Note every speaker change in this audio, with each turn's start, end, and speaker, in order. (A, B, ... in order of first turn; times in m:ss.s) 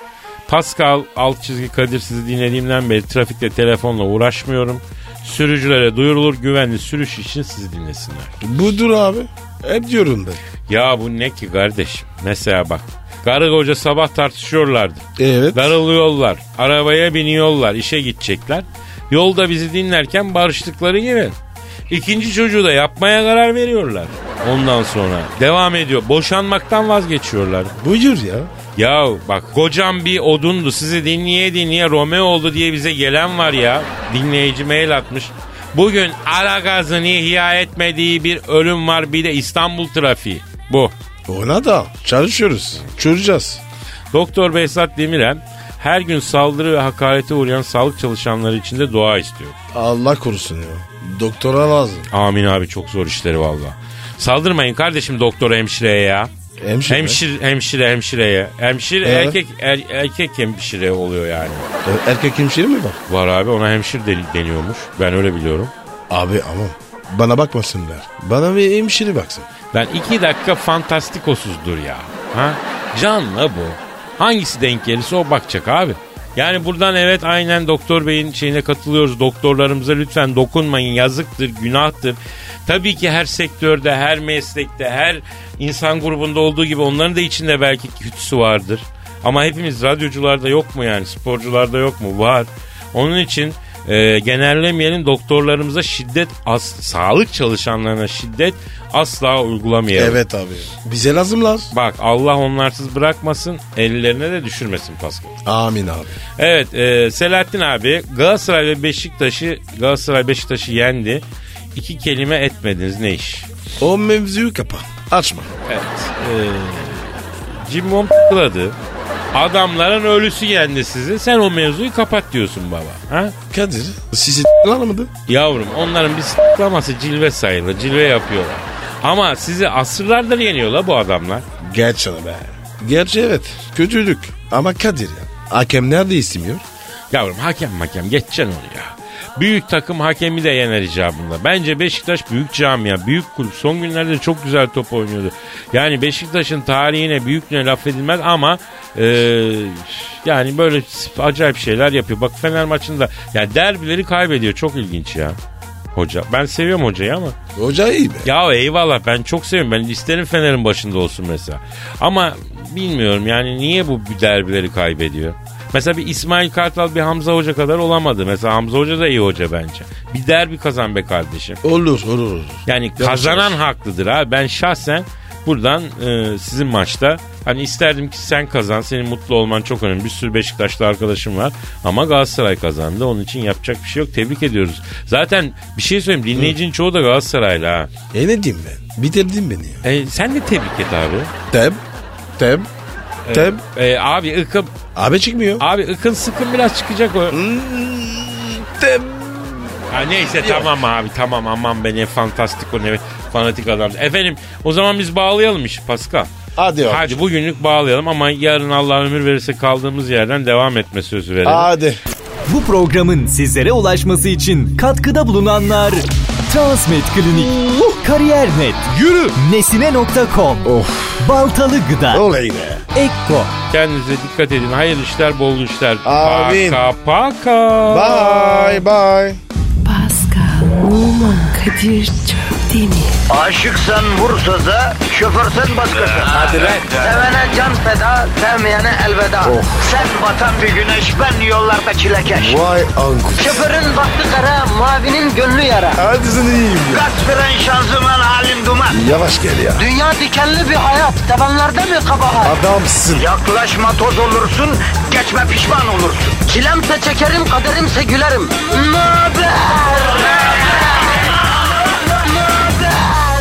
0:00.5-0:08.4 A
0:08.4-0:10.4 B
0:10.7-0:21.4 A
0:15.2-0:15.8 B
0:21.9-0:27.7 A
0:27.8-0:28.5 B
0:28.8-0:41.0 A
0:41.3-0:43.6 B
0:44.1-0:49.6 A
0:49.7-0:52.1 B
0:52.1-0:56.3 A
0:56.6-0:57.2 B
0:56.9-1:01.7 A
0:59.0-0:59.4 B
1:01.8-1:03.0 B
1:03.1-1:05.7 A
1:06.1-1:09.5 B
1:09.7-1:40.2 A
1:39.9-1:41.7 B
1:41.7-1:45.3 A
1:45.4-1:46.2 B
1:46.4-1:51.2 A
1:51.8-1:53.5 A
1:53.8-1:55.5 B
1:55.7-1:58.8 A
1:59.3-2:03.4 A
2:03.5-2:05.1 B
2:05.3-2:11.5 A
2:11.6-2:16.6 B
2:17.1-2:35.4 A
2:35.9-2:37.4 A
2:37.6-2:38.3 B
2:38.2-2:51.6 A
2:51.6-2:53.6 B
2:52.7-3:07.9 A
3:08.1-3:09.8 B
3:09.8-3:11.3 A
3:11.5-3:11.8 B
3:12.4-3:12.7 B
3:13.2-3:14.7 A
3:13.3-3:13.6 B
3:15.0-3:15.6 B
3:15.6-3:17.4 A
3:17.3-3:20.7 B
3:19.9-3:26.3 A
3:26.6-3:27.2 B
3:26.9-3:31.7 A
3:31.4-3:32.0 B
3:32.5-3:42.2 C
3:40.6-3:41.3 B
3:42.1-3:42.8 B
3:43.0-3:43.5 C
3:43.7-3:48.8 A
3:46.0-3:46.8 B
3:47.9-3:49.4 B
3:49.8-3:53.2 D
3:53.3-4:02.7 E
3:59.4-3:59.8 B
4:02.3-4:03.6 B
4:03.4-4:06.0 E
4:06.0-4:07.1 B
4:06.9-4:09.0 E
4:08.9-4:09.9 B
4:09.8-4:12.6 E
4:12.4-4:13.3 B
4:13.2-4:20.7 E
4:22.4-4:23.1 E